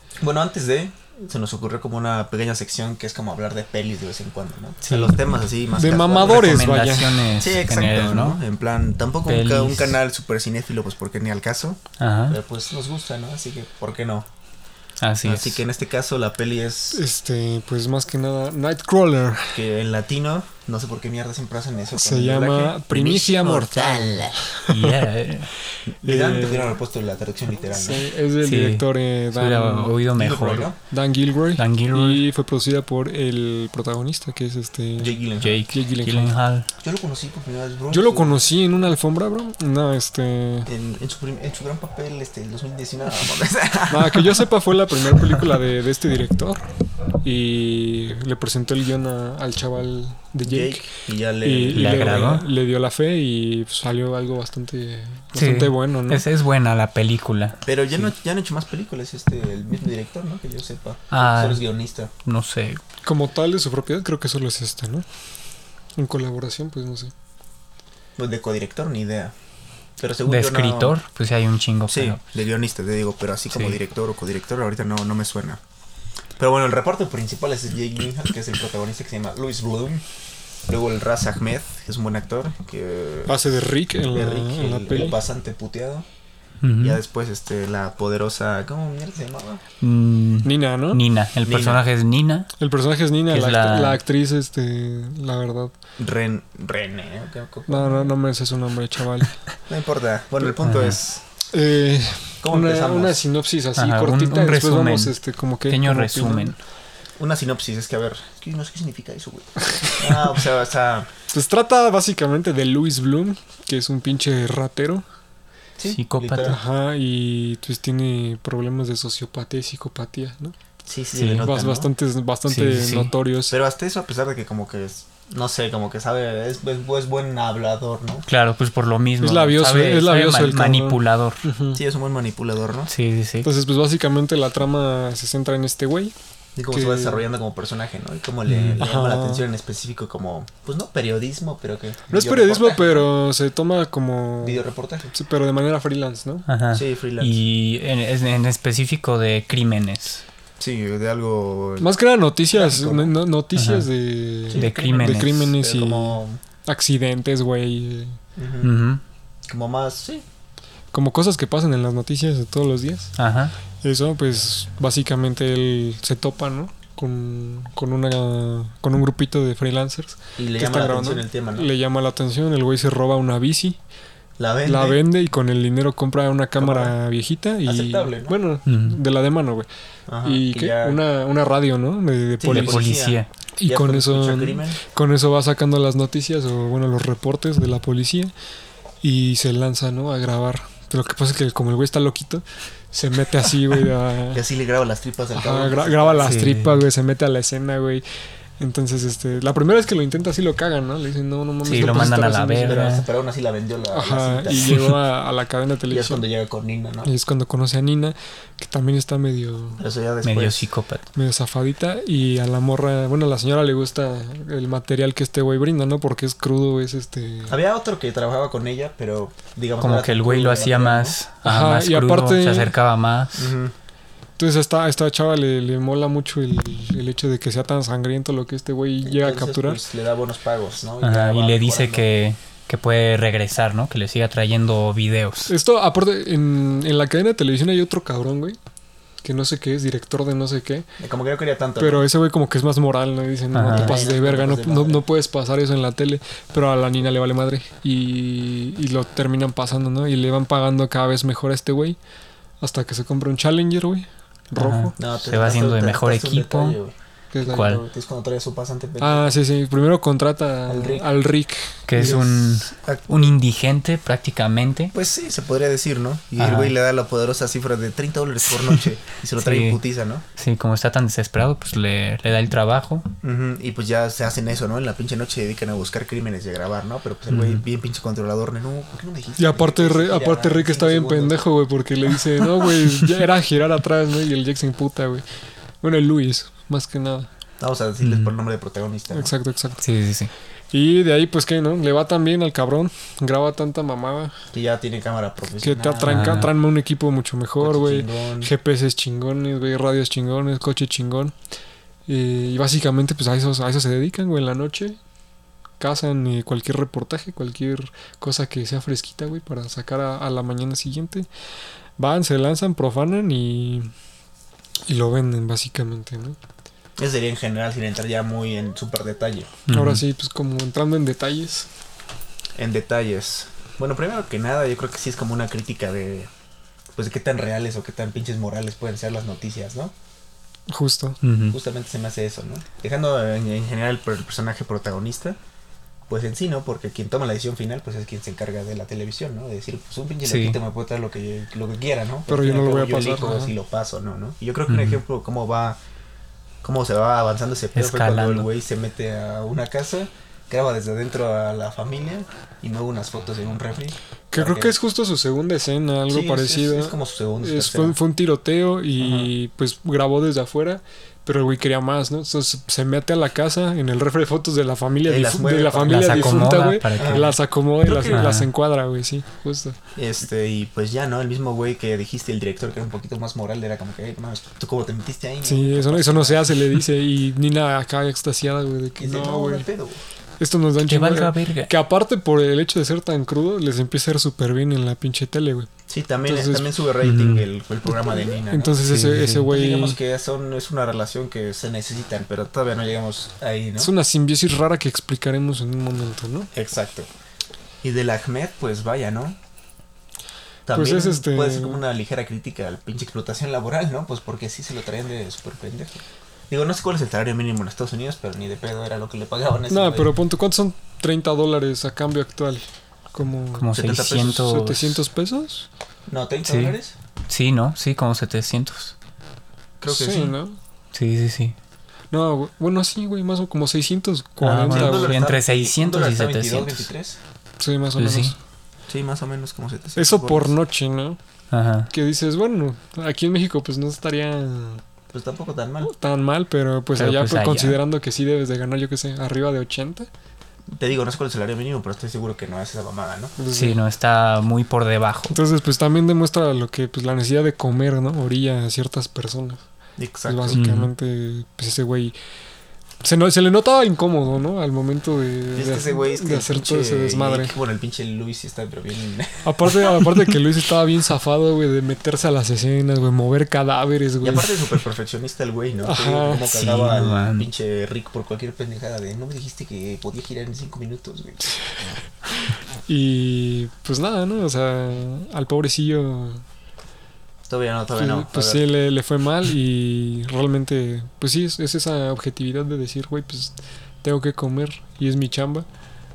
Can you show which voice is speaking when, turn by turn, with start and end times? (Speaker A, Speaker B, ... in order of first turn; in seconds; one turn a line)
Speaker A: 0.2-6.7
Speaker B: 4.8-5.2
Speaker C: 5.8-7.3
Speaker B: 6.2-8.4
Speaker A: 7.4-14.3
Speaker B: 9.2-10.0
Speaker B: 12.0-12.4
Speaker B: 15.0-15.6
Speaker A: 15.2-17.0
Speaker C: 16.9-19.6
Speaker A: 19.5-24.4
Speaker C: 21.9-24.9
Speaker B: 24.7-25.5
Speaker A: 25.9-28.1
Speaker C: 26.0-26.8
Speaker C: 27.7-30.0
Speaker B: 28.4-30.7
Speaker A: 30.1-30.8
Speaker C: 30.9-36.4
Speaker B: 31.6-32.2
Speaker A: 35.0-35.6
Speaker B: 35.4-36.7
Speaker A: 36.8-38.4
Speaker C: 37.9-40.7
Speaker A: 40.6-44.5
Speaker C: 43.9-46.7
Speaker A: 45.1-45.4
Speaker C: 47.2-50.9
Speaker A: 50.4-52.3
Speaker C: 51.4-56.3
Speaker B: 51.7-52.5
Speaker B: 55.3-58.1
Speaker A: 57.6-62.1
Speaker B: 61.1-61.6
Speaker B: 62.2-62.8
Speaker C: 63.0-65.0
Speaker C: 66.0-67.1
Speaker A: 68.2-69.3
Speaker A: 70.0-71.0
Speaker B: 70.2-72.2
Speaker A: 71.9-75.6
Speaker B: 73.5-73.8
Speaker A: 76.4-80.0
Speaker A: 80.7-83.4
Speaker C: 83.3-85.2
Speaker A: 84.1-86.0
Speaker B: 86.6-87.0
Speaker A: 86.8-89.6
Speaker B: 89.8-92.5
Speaker C: 90.4-91.0
Speaker A: 91.4-91.8
Speaker C: 92.6-95.7
Speaker B: 93.3-94.0
Speaker A: 96.0-98.1
Speaker C: 97.7-99.3
Speaker A: 99.7-101.2
Speaker B: 100.6-101.0
Speaker C: 101.5-106.5
Speaker A: 102.4-103.2
Speaker B: 103.8-106.6
Speaker A: 107.2-111.1
Speaker C: 111.3-115.0
Speaker A: 115.8-116.6
Speaker B: 115.9-116.6
Speaker C: 116.4-120.5
Speaker A: 120.8-121.9
Speaker B: 121.1-121.5
Speaker C: 121.4-123.5
Speaker B: 122.5-123.1
Speaker A: 123.5-128.3
Speaker B: 128.3-131.4
Speaker C: 129.2-131.8
Speaker A: 131.7-132.9
Speaker B: 132.9-133.5
Speaker C: 133.4-136.1
Speaker A: 136.6-143.1
Speaker C: 136.7-137.2
Speaker B: 138.4-138.8
Speaker C: 138.8-139.4
Speaker C: 142.1-146.4
Speaker A: 144.4-145.1
Speaker B: 146.5-150.2
Speaker A: 146.7-147.4
Speaker A: 150.6-151.9
Speaker C: 151.8-158.2
Speaker A: 152.5-153.2
Speaker B: 153.5-153.9
Speaker B: 154.5-155.5
Speaker A: 154.5-154.9
Speaker A: 155.6-156.4
Speaker A: 158.3-158.7
Speaker B: 158.6-159.0
Speaker A: 159.5-160.2
Speaker C: 160.9-163.1
Speaker B: 163.2-163.5
Speaker C: 163.8-173.8
Speaker A: 170.4-171.7
Speaker A: 174.4-175.0
Speaker C: 174.6-179.7
Speaker A: 176.6-176.9
Speaker A: 177.6-178.4
Speaker B: 178.7-179.0
Speaker A: 180.1-181.0
Speaker C: 180.2-182.9
Speaker A: 182.4-184.8
Speaker B: 182.5-183.3
Speaker C: 183.6-188.3
Speaker C: 189.0-194.4
Speaker A: 194.3-196.4
Speaker C: 195.3-198.0
Speaker B: 196.2-196.8
Speaker C: 198.6-202.8
Speaker B: 201.6-203.1
Speaker A: 201.6-204.9
Speaker C: 203.9-206.2
Speaker A: 205.9-207.1
Speaker C: 207.0-209.8
Speaker A: 209.8-210.6
Speaker B: 210.2-211.1
Speaker C: 211.1-217.6
Speaker A: 217.5-221.2
Speaker B: 219.8-223.5
Speaker C: 221.4-222.7
Speaker A: 223.4-223.7
Speaker C: 224.4-229.8
Speaker A: 229.0-232.1
Speaker B: 231.0-235.5
Speaker C: 235.5-238.6
Speaker C: 239.2-240.9
Speaker A: 241.0-242.1
Speaker C: 241.8-252.0
Speaker B: 243.5-244.0
Speaker A: 243.7-245.0
Speaker C: 252.6-254.9
Speaker B: 254.6-256.8
Speaker A: 255.0-259.4
Speaker C: 257.3-257.8
Speaker B: 257.5-257.8
Speaker C: 259.0-262.3
Speaker A: 260.7-261.1
Speaker B: 261.9-264.9
Speaker A: 262.0-263.3
Speaker A: 264.9-270.2
Speaker B: 266.4-266.7
Speaker B: 269.4-269.8
Speaker B: 270.4-273.1
Speaker A: 273.2-281.4
Speaker B: 277.3-277.6
Speaker C: 279.4-285.2
Speaker C: 285.8-287.3
Speaker A: 287.6-289.3
Speaker B: 288.0-288.3
Speaker C: 289.1-289.8
Speaker B: 289.8-290.3
Speaker C: 290.7-294.3
Speaker A: 294.5-296.5
Speaker C: 295.6-301.3
Speaker B: 296.1-296.5
Speaker A: 297.6-298.5
Speaker C: 302.1-305.0
Speaker C: 305.8-311.3
Speaker C: 312.0-313.9
Speaker C: 314.9-316.4
Speaker A: 317.0-319.5
Speaker B: 319.7-320.0
Speaker C: 319.7-321.7
Speaker A: 322.6-326.3
Speaker A: 326.9-329.9
Speaker C: 330.7-331.2
Speaker B: 331.2-331.6
Speaker A: 331.5-335.4
Speaker A: 336.1-345.8
Speaker B: 340.2-340.6
Speaker C: 342.3-343.5
Speaker B: 344.7-345.0
Speaker A: 346.6-354.8
Speaker B: 347.7-348.5
Speaker C: 354.3-369.8
Speaker A: 356.1-358.0
Speaker A: 359.0-359.3
Speaker A: 365.1-368.2
Speaker B: 365.9-367.4
Speaker B: 368.1-368.5
Speaker A: 369.9-376.6
Speaker C: 375.4-379.7
Speaker A: 379.0-380.0
Speaker C: 380.4-385.7
Speaker B: 380.8-381.7
Speaker A: 385.9-393.9
Speaker C: 386.2-386.7
Speaker B: 387.0-387.5
Speaker C: 388.5-390.0
Speaker B: 388.9-389.4
Speaker C: 393.8-396.5
Speaker A: 396.5-397.1
Speaker A: 397.8-399.4
Speaker A: 400.7-410.1
Speaker C: 400.7-401.8
Speaker C: 409.7-413.7
Speaker B: 413.6-415.0
Speaker A: 413.7-414.5
Speaker C: 414.4-415.7
Speaker A: 416.1-416.9
Speaker B: 416.4-416.8
Speaker B: 417.3-418.9
Speaker A: 419.8-420.4
Speaker C: 419.9-420.6
Speaker B: 420.9-421.5
Speaker C: 422.1-425.1
Speaker B: 424.4-426.9
Speaker A: 424.7-427.2
Speaker C: 427.6-428.4
Speaker B: 428.0-428.3
Speaker A: 428.9-430.6
Speaker C: 429.9-431.2
Speaker B: 431.5-431.9
Speaker C: 431.9-434.8
Speaker A: 435.1-435.9
Speaker C: 435.8-440.1
Speaker B: 436.9-437.8
Speaker A: 440.8-443.3
Speaker C: 443.4-443.8
Speaker B: 443.5-445.4
Speaker C: 445.3-449.6
Speaker A: 450.0-450.6
Speaker C: 450.3-452.1
Speaker B: 450.5-450.9
Speaker C: 453.0-457.5
Speaker A: 455.6-459.5
Speaker C: 459.4-464.6
Speaker A: 464.2-471.5
Speaker C: 465.8-466.5
Speaker B: 466.5-467.5
Speaker C: 472.5-476.4
Speaker A: 477.5-478.7
Speaker C: 477.9-485.7